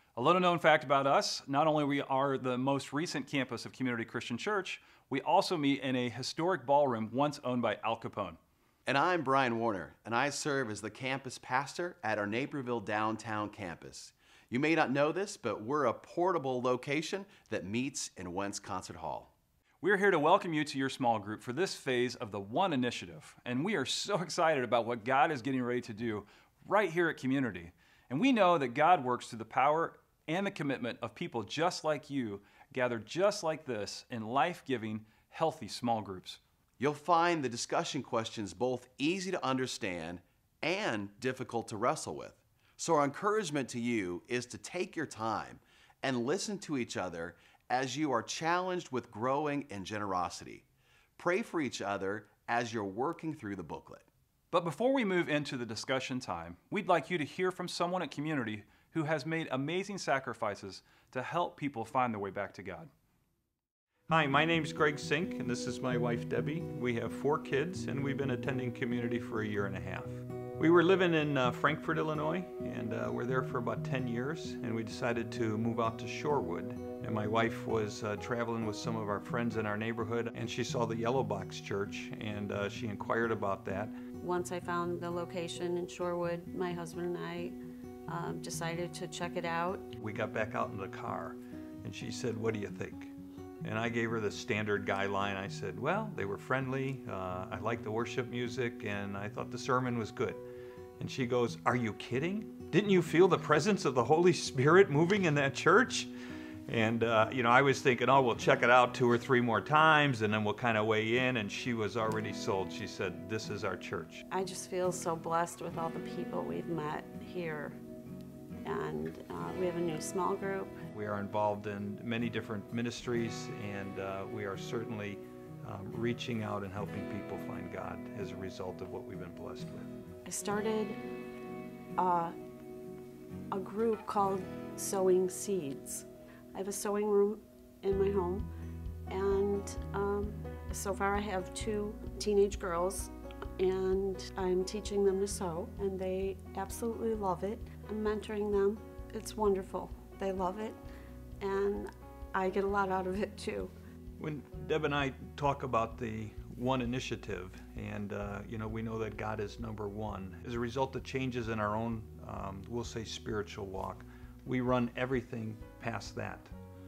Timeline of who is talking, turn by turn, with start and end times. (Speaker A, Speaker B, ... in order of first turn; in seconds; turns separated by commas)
Speaker A: 0.1-8.4, Speaker B: 8.8-19.3, Speaker A: 19.8-36.4, Speaker B: 36.8-50.6, Speaker B: 51.2-54.1, Speaker A: 54.5-62.9, Speaker C: 64.1-83.9, Speaker D: 84.2-89.9, Speaker C: 90.0-100.4, Speaker C: 101.0-106.1, Speaker C: 106.7-114.2, Speaker D: 114.3-117.8, Speaker D: 118.6-120.8, Speaker C: 120.9-129.9, Speaker D: 130.2-131.0, Speaker D: 132.0-132.3, Speaker D: 133.5-138.5, Speaker D: 139.1-150.8, Speaker D: 151.4-153.7, Speaker C: 154.2-166.5